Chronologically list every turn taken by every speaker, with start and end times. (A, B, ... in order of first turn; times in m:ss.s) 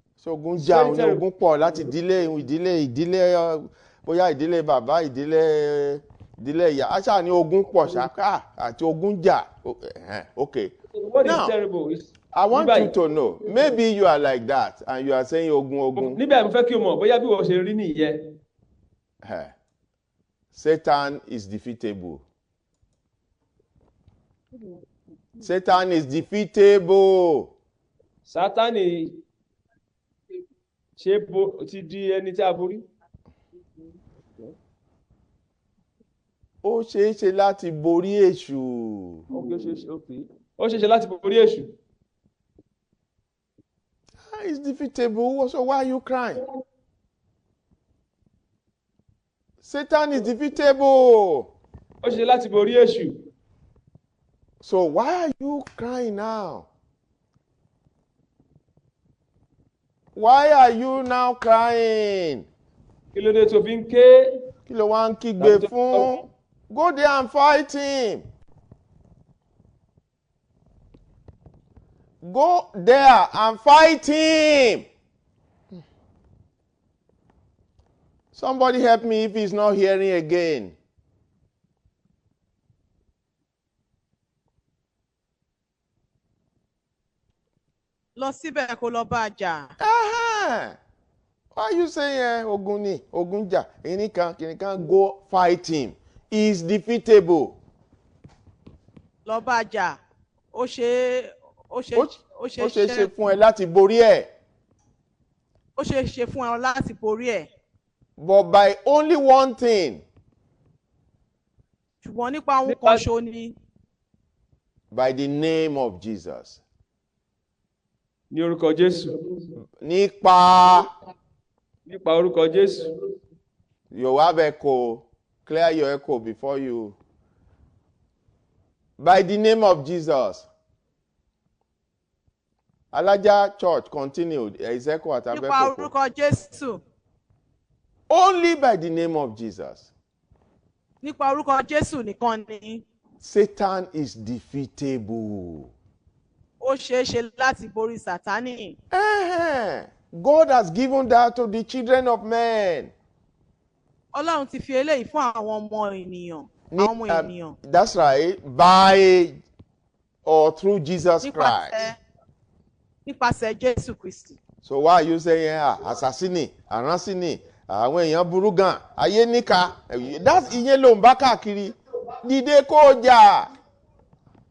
0:00.2-0:11.5 A
0:00.6-0:01.2 B
0:10.9-0:13.0 B
0:12.3-0:16.2 A
0:16.0-0:18.3 B
0:19.2-0:19.5 A
0:20.5-0:22.2 A
0:25.4-0:27.5 A
0:28.3-0:29.2 B
0:31.0-0:32.9 B
0:36.6-0:39.3 A
0:39.3-0:41.7 B
0:44.3-0:46.4 A
0:49.6-0:51.5 A
0:52.0-0:53.2 B
0:54.6-0:56.7 A
1:00.2-1:02.5 A
1:03.1-1:04.3 B
1:04.7-1:08.3 A
1:05.4-1:06.1 B
1:12.2-1:14.9 A
1:18.3-1:20.8 A
1:28.2-1:29.7 C
1:29.8-1:30.8 A
1:31.6-1:37.6 A
1:39.2-1:40.0 C
1:40.5-1:43.1 C
1:42.0-1:44.3 A
1:45.8-1:47.5 C
1:48.2-1:50.0 A
1:52.0-1:53.6 C
1:52.7-1:53.0 B
1:54.9-1:56.6 A
1:58.3-1:59.2 B
1:59.8-2:00.9 A
2:01.9-2:02.9 B
2:03.9-2:07.0 A
2:09.0-2:10.5 A
2:12.9-2:15.9 A
2:15.3-2:16.8 C
2:18.1-2:19.9 A
2:21.0-2:22.8 C
2:23.2-2:25.7 A
2:26.6-2:28.8 C
2:28.9-2:32.9 A
2:34.1-2:37.6 C
2:36.7-2:39.4 A
2:40.2-2:41.9 A
2:41.2-2:42.0 C
2:43.0-2:44.4 C
2:44.6-2:53.5 A